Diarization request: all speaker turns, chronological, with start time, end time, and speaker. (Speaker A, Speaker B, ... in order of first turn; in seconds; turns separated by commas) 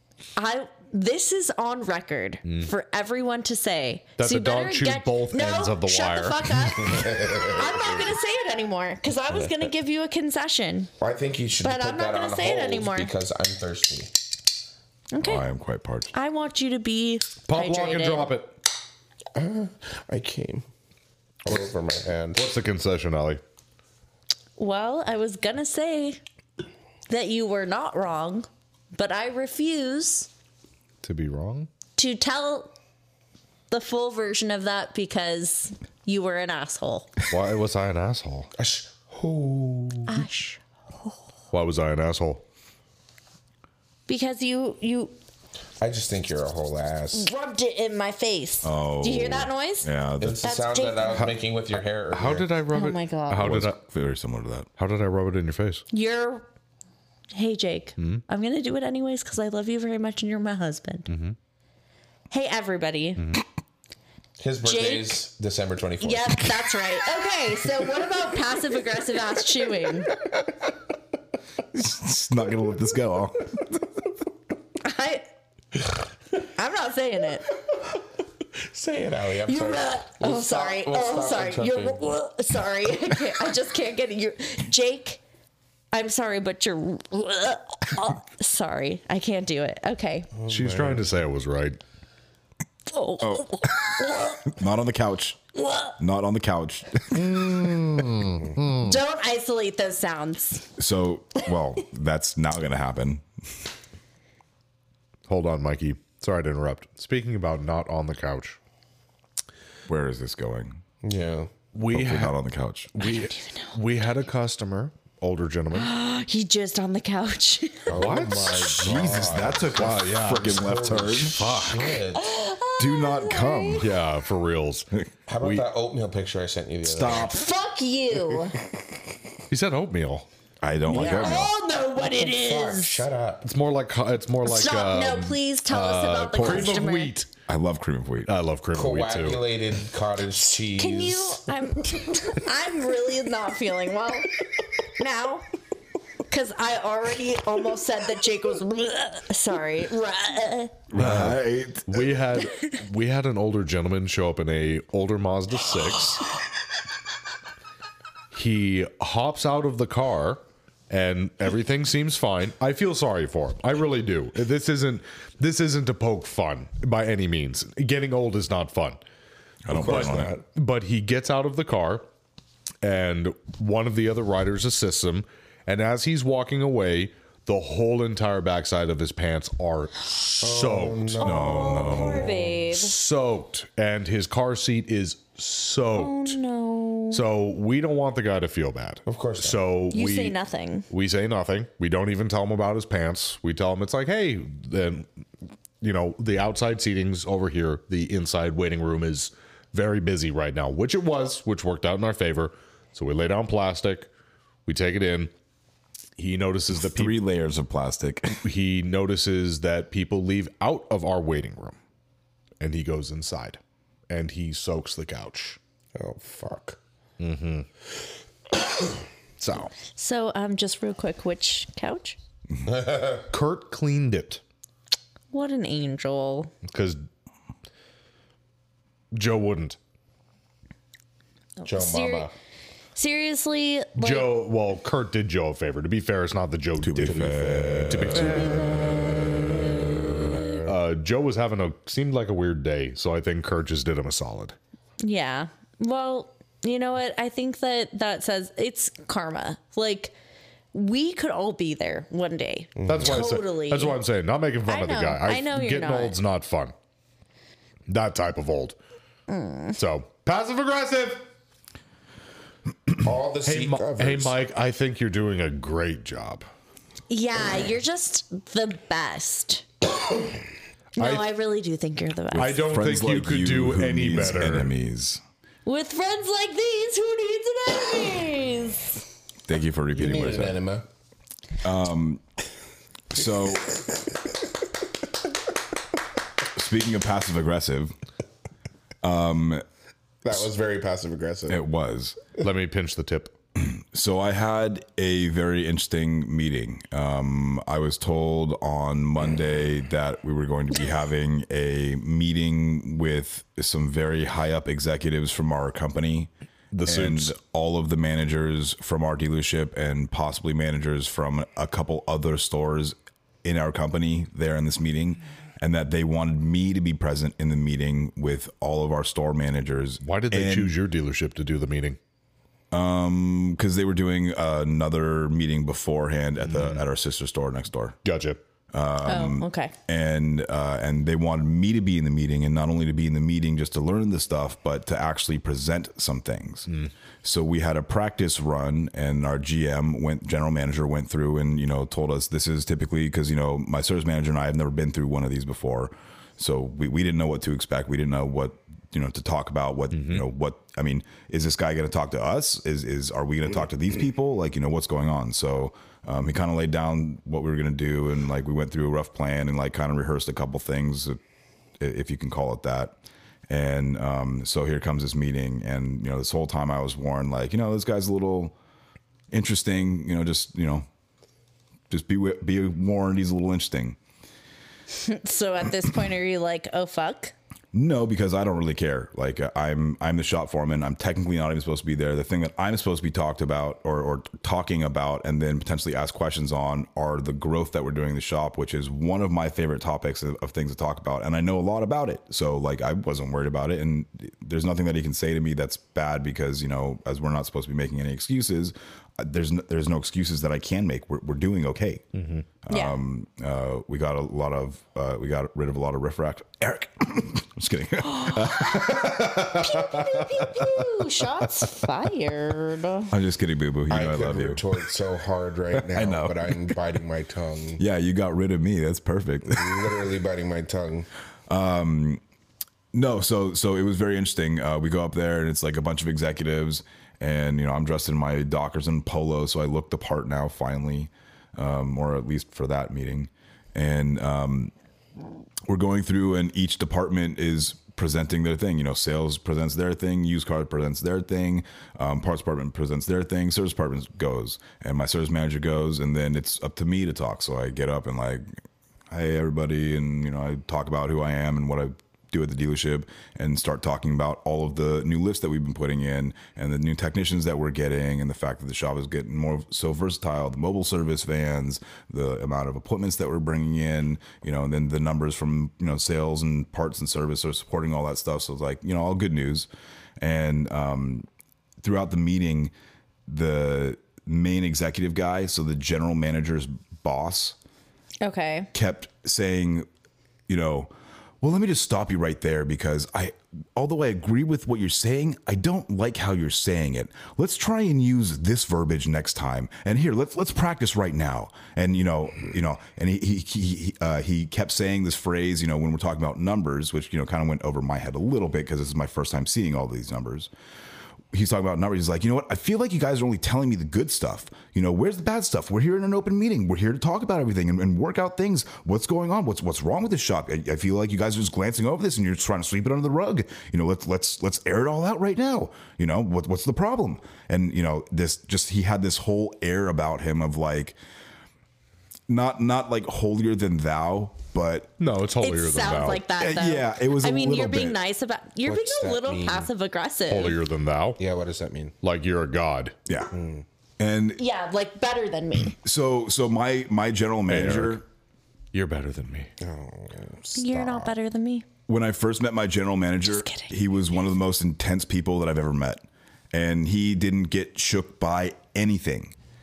Speaker A: 0.3-10.9, Speaker B: 2.5-2.7, Speaker B: 4.2-6.9, Speaker C: 6.8-8.1, Speaker C: 11.0-14.1, Speaker A: 11.6-13.1, Speaker A: 15.1-15.4, Speaker D: 15.2-16.1, Speaker A: 16.1-18.3, Speaker B: 17.5-18.5, Speaker C: 19.3-20.6, Speaker C: 21.4-22.5, Speaker B: 22.3-23.4, Speaker A: 24.6-26.2, Speaker A: 27.1-30.3, Speaker B: 31.0-31.7, Speaker A: 32.0-32.7, Speaker A: 33.7-37.1, Speaker B: 37.3-38.5, Speaker C: 38.5-40.2, Speaker A: 40.1-41.2, Speaker B: 41.5-42.4, Speaker A: 44.1-45.1, Speaker C: 45.8-47.3, Speaker A: 47.1-49.9, Speaker D: 48.6-50.5, Speaker C: 50.2-52.5, Speaker A: 50.4-51.3, Speaker B: 52.1-53.8, Speaker A: 52.7-53.5, Speaker D: 53.4-54.7, Speaker B: 54.8-55.8, Speaker A: 55.9-56.5, Speaker A: 57.3-61.1, Speaker B: 61.1-61.4, Speaker A: 62.3-63.3, Speaker B: 63.2-63.4, Speaker C: 64.4-66.7, Speaker A: 64.6-65.2, Speaker A: 66.0-70.1, Speaker D: 71.7-73.8, Speaker A: 74.8-75.2, Speaker A: 76.4-77.5, Speaker C: 78.5-82.0, Speaker A: 79.5-85.2, Speaker A: 85.9-90.3, Speaker C: 90.4-91.0, Speaker B: 90.5-91.8, Speaker A: 92.9-94.5, Speaker D: 93.2-93.6, Speaker D: 94.4-95.4, Speaker A: 95.6-95.9, Speaker D: 96.0-98.2, Speaker B: 98.3-98.9, Speaker A: 98.8-100.7, Speaker D: 100.8-103.2, Speaker B: 105.3-108.6, Speaker D: 109.9-110.8, Speaker C: 111.0-111.5, Speaker B: 111.7-112.3, Speaker D: 111.9-112.9, Speaker B: 112.9-115.9, Speaker A: 113.0-113.7, Speaker A: 115.7-118.2, Speaker C: 117.9-122.3, Speaker B: 117.9-120.6, Speaker D: 118.8-121.5, Speaker B: 121.2-121.9, Speaker A: 122.1-123.9, Speaker D: 122.8-123.9, Speaker B: 123.8-124.9, Speaker C: 125.3-127.3, Speaker B: 125.4-125.6, Speaker D: 126.8-127.5, Speaker A: 127.1-128.6, Speaker B: 129.5-130.3, Speaker D: 130.6-131.5, Speaker A: 130.9-133.0, Speaker C: 130.9-131.4, Speaker C: 132.0-133.5, Speaker B: 133.4-137.3, Speaker A: 134.4-137.1, Speaker D: 136.4-136.7, Speaker D: 137.5-138.3, Speaker B: 138.3-139.4, Speaker C: 138.7-141.5, Speaker A: 140.8-145.5, Speaker A: 146.3-150.8, Speaker D: 150.9-152.0, Speaker B: 150.9-156.3, Speaker B: 158.3-169.0, Speaker D: 169.6-170.3, Speaker C: 169.7-170.4, Speaker B: 169.7-172.1, Speaker B: 172.8-181.2, Speaker C: 180.4-182.3, Speaker A: 181.2-182.9, Speaker D: 181.2-182.3, Speaker B: 182.6-186.3, Speaker A: 185.9-187.2, Speaker B: 187.1-190.3, Speaker C: 189.1-189.7, Speaker A: 189.9-190.9, Speaker B: 190.9-195.1, Speaker B: 195.8-204.1, Speaker B: 204.7-205.3, Speaker B: 206.2-207.2, Speaker D: 206.8-208.4, Speaker B: 208.4-211.8, Speaker B: 212.6-215.6, Speaker C: 215.9-216.8, Speaker B: 217.2-217.7, Speaker B: 219.4-219.7, Speaker A: 219.9-222.2, Speaker C: 222.7-223.2, Speaker B: 223.3-224.4, Speaker A: 225.3-226.5, Speaker B: 226.7-227.0, Speaker B: 229.1-229.8, Speaker A: 231.6-232.3, Speaker C: 231.7-232.3, Speaker A: 232.9-234.4, Speaker B: 233.9-238.8, Speaker D: 236.8-238.4, Speaker A: 238.2-240.1, Speaker C: 240.0-240.7, Speaker B: 240.6-244.6, Speaker A: 245.0-250.1, Speaker A: 250.7-254.0, Speaker C: 252.8-253.4, Speaker B: 252.9-256.7, Speaker A: 254.6-256.2, Speaker B: 257.9-258.8, Speaker A: 259.3-259.7, Speaker B: 259.7-261.3, Speaker C: 263.0-264.4, Speaker B: 263.4-266.4, Speaker A: 267.1-269.6, Speaker A: 270.9-272.6, Speaker B: 271.0-271.3, Speaker D: 272.3-275.2, Speaker B: 272.3-274.7, Speaker A: 275.6-279.0, Speaker D: 279.5-280.6, Speaker C: 279.9-280.9, Speaker D: 281.6-282.2, Speaker D: 283.1-283.8, Speaker D: 286.5-287.9, Speaker D: 289.0-289.6, Speaker C: 290.2-291.6, Speaker D: 291.5-292.2, Speaker B: 292.4-293.3, Speaker D: 293.6-306.3, Speaker B: 306.7-307.3, Speaker D: 306.8-320.7, Speaker B: 320.0-322.0, Speaker D: 322.7-328.0, Speaker B: 326.4-326.8, Speaker B: 328.0-328.4, Speaker D: 328.7-336.7, Speaker A: 329.1-329.7, Speaker D: 337.2-361.2, Speaker B: 349.9-350.2, Speaker D: 361.8-362.9, Speaker D: 363.5-368.5, Speaker D: 369.3-370.9, Speaker D: 371.9-374.0, Speaker A: 375.0-377.3, Speaker D: 377.7-402.1, Speaker B: 402.1-402.4, Speaker D: 402.6-410.5, Speaker A: 402.7-402.9, Speaker A: 408.2-413.1, Speaker D: 413.1-414.6, Speaker C: 413.9-417.8, Speaker D: 415.8-416.6, Speaker D: 417.8-419.8, Speaker C: 419.5-421.1, Speaker D: 421.5-422.2, Speaker D: 422.9-434.7, Speaker D: 435.7-448.4, Speaker D: 449.1-469.7, Speaker D: 470.2-471.3, Speaker D: 471.8-472.7, Speaker D: 473.3-477.6, Speaker A: 478.2-478.7, Speaker D: 478.7-479.9, Speaker D: 480.5-480.9, Speaker D: 481.4-500.5, Speaker D: 501.3-521.0, Speaker D: 522.3-524.9, Speaker B: 525.0-526.2, Speaker A: 525.4-530.6, Speaker D: 526.4-528.0, Speaker C: 528.6-529.7, Speaker B: 530.3-531.2, Speaker C: 531.2-531.9, Speaker B: 532.0-532.9, Speaker D: 533.1-533.3, Speaker C: 533.3-533.6, Speaker D: 534.0-534.4, Speaker A: 534.4-535.7, Speaker D: 535.8-538.0, Speaker B: 537.5-538.0, Speaker B: 538.7-539.5, Speaker C: 539.6-541.1, Speaker A: 540.6-541.6, Speaker D: 541.9-549.3, Speaker A: 543.2-543.7